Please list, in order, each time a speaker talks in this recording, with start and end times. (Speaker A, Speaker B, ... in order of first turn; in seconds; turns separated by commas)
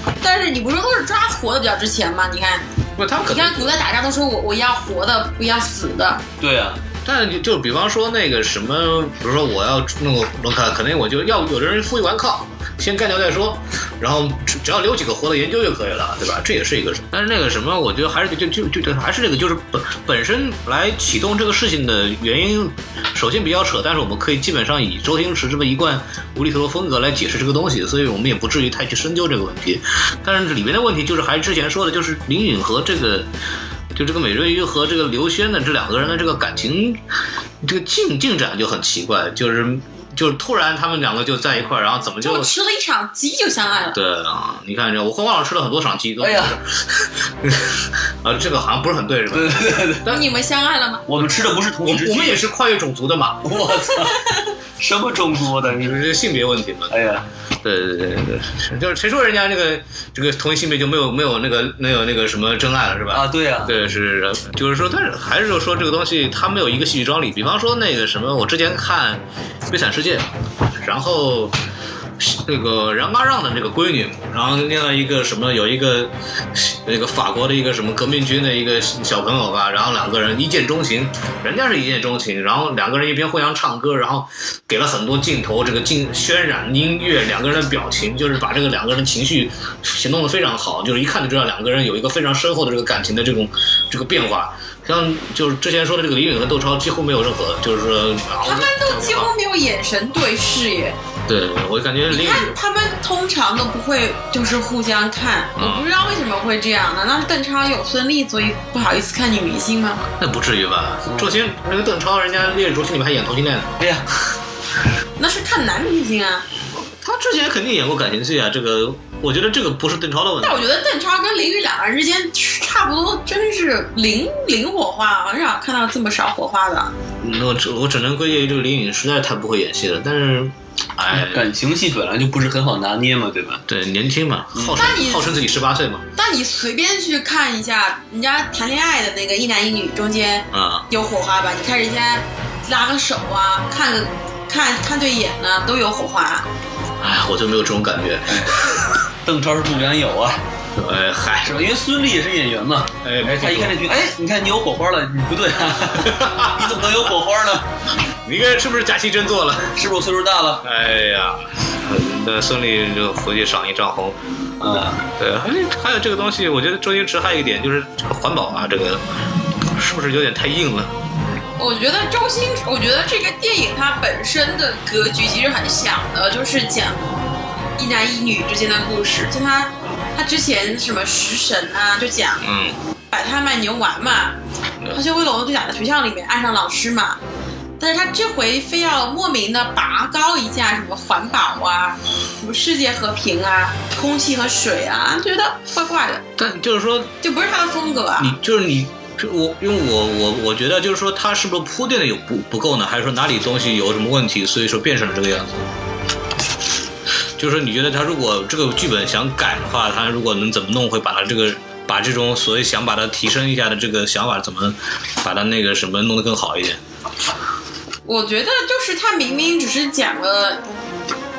Speaker A: 0.2-2.7, Speaker B: 3.0-3.8, Speaker A: 3.2-6.2, Speaker C: 6.4-6.8, Speaker B: 7.0-33.3, Speaker B: 33.9-37.0, Speaker B: 37.6-42.5, Speaker A: 42.2-44.0, Speaker B: 43.9-50.2, Speaker C: 46.2-46.5, Speaker C: 49.3-50.2, Speaker A: 50.1-51.0, Speaker C: 51.1-52.5, Speaker B: 51.8-53.7, Speaker C: 53.4-56.0, Speaker B: 55.8-56.9, Speaker C: 56.9-57.2, Speaker B: 57.6-70.3, Speaker C: 63.1-63.8, Speaker B: 70.8-71.5, Speaker B: 72.2-99.3, Speaker A: 98.4-101.0, Speaker B: 101.3-102.5, Speaker A: 102.1-110.0, Speaker B: 105.6-105.9, Speaker B: 110.2-113.8, Speaker C: 111.1-111.3, Speaker C: 113.8-114.1, Speaker A: 115.2-116.5, Speaker B: 117.0-120.7, Speaker A: 120.4-126.9, Speaker B: 127.2-131.5, Speaker C: 131.1-133.6, Speaker B: 133.7-136.1, Speaker C: 134.5-134.9, Speaker A: 134.7-135.4, Speaker A: 136.2-146.4, Speaker B: 140.5-140.9, Speaker B: 147.0-149.0, Speaker C: 148.3-148.6, Speaker C: 149.2-150.4, Speaker B: 150.8-151.7, Speaker C: 151.4-157.7, Speaker B: 153.0-153.8, Speaker B: 156.0-157.1, Speaker B: 158.2-159.8, Speaker C: 159.7-160.6, Speaker B: 160.6-164.2, Speaker C: 164.6-165.1, Speaker B: 165.2-169.0, Speaker B: 169.6-170.9, Speaker A: 171.6-177.1, Speaker A: 177.8-182.4, Speaker B: 182.4-182.8, Speaker A: 183.1-184.4, Speaker A: 184.9-187.2, Speaker A: 187.8-196.2, Speaker B: 196.4-197.1, Speaker A: 197.2-198.4, Speaker B: 198.2-205.6, Speaker B: 207.4-216.8, Speaker A: 218.0-220.6